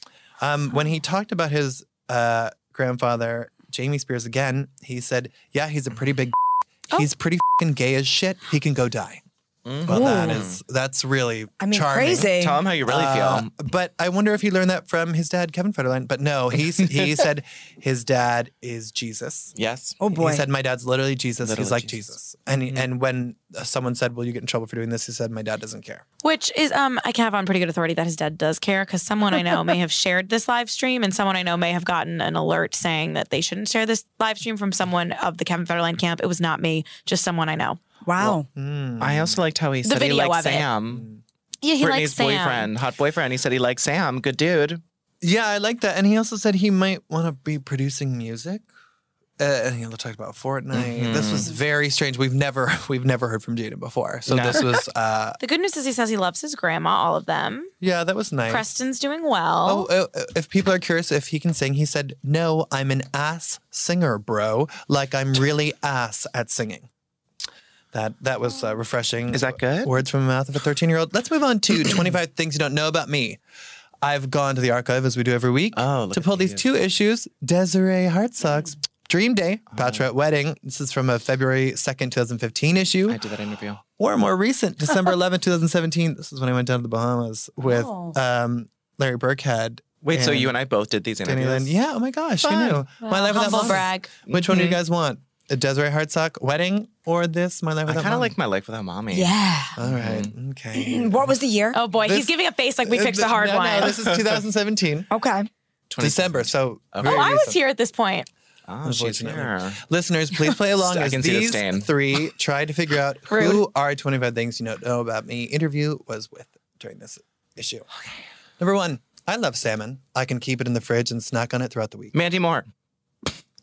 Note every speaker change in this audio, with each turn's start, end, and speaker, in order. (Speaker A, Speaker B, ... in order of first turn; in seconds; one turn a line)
Speaker A: 0.4-6.4
Speaker A: 6.9-9.2
Speaker B: 9.7-10.6
Speaker A: 9.8-12.3
Speaker C: 9.9-10.5
Speaker C: 11.6-12.6
Speaker B: 12.3-13.5
Speaker A: 12.9-19.5
Speaker B: 19.6-20.0
Speaker C: 20.0-20.5
Speaker A: 20.1-26.0
Speaker B: 21.4-22.1
Speaker D: 26.2-37.8
Speaker C: 38.0-38.5
Speaker A: 38.2-39.4
Speaker B: 39.0-41.1
Speaker D: 39.8-40.7
Speaker A: 40.9-41.2
Speaker D: 41.6-42.7
Speaker B: 41.8-44.8
Speaker A: 45.2-48.6
Speaker A: 49.4-55.4
Speaker B: 50.7-51.5
Speaker B: 54.3-54.7
Speaker D: 55.4-57.7
Speaker A: 57.8-58.6
Speaker D: 58.5-59.9
Speaker A: 59.6-66.9
Speaker A: 67.9-73.4
Speaker B: 69.3-69.9
Speaker A: 74.0-83.2
Speaker B: 75.8-76.7
Speaker B: 79.7-80.0
Speaker B: 83.1-83.8
Speaker A: 84.0-90.5
Speaker B: 90.0-91.7
Speaker A: 91.2-98.3
Speaker B: 92.4-92.8
Speaker D: 93.0-94.1
Speaker B: 93.5-94.8
Speaker B: 97.9-100.3
Speaker C: 99.1-99.8
Speaker A: 99.8-101.3
Speaker C: 100.7-101.8
Speaker D: 101.7-104.0
Speaker A: 102.0-102.3
Speaker A: 102.8-105.1
Speaker C: 105.1-105.5
Speaker B: 105.9-107.3
Speaker A: 106.0-107.6
Speaker D: 107.0-108.3
Speaker B: 108.7-109.8
Speaker A: 108.8-117.9
Speaker B: 110.7-111.9
Speaker D: 113.3-113.6
Speaker A: 118.6-122.1
Speaker B: 122.1-122.7